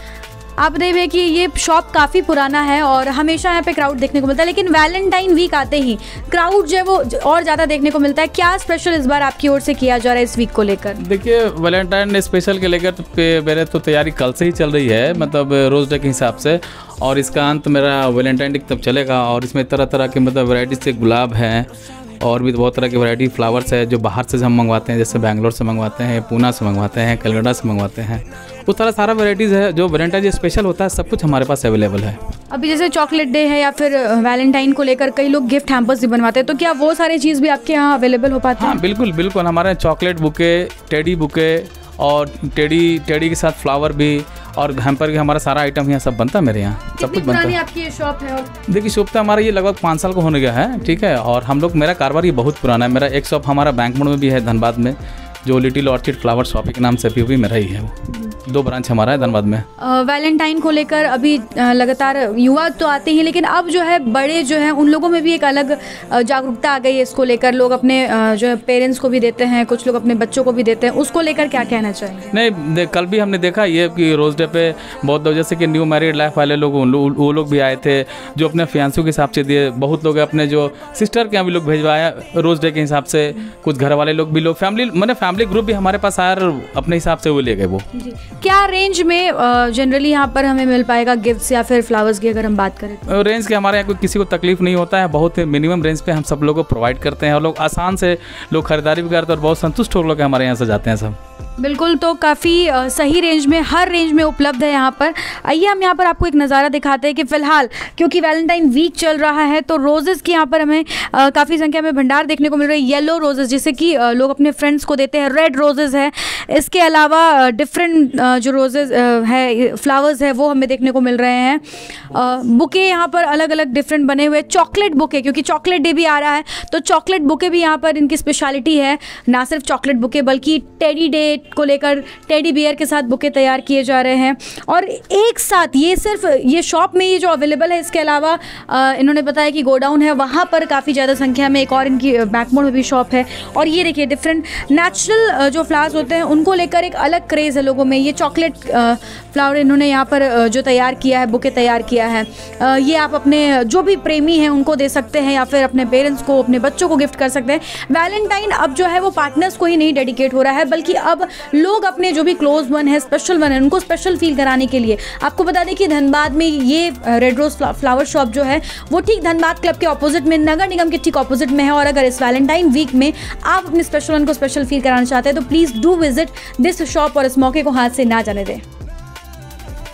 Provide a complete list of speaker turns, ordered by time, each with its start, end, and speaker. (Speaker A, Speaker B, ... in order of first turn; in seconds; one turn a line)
Speaker A: 0.6-11.0
Speaker B: 11.0-21.7
Speaker B: 22.2-32.2
Speaker A: 32.5-38.8
Speaker B: 38.6-47.5
Speaker A: 47.0-48.5
Speaker B: 48.7-59.6
Speaker A: 59.8-72.3
Speaker B: 72.3-87.8
Speaker A: 88.0-93.1
Speaker B: 93.1-101.2
Speaker A: 101.6-178.6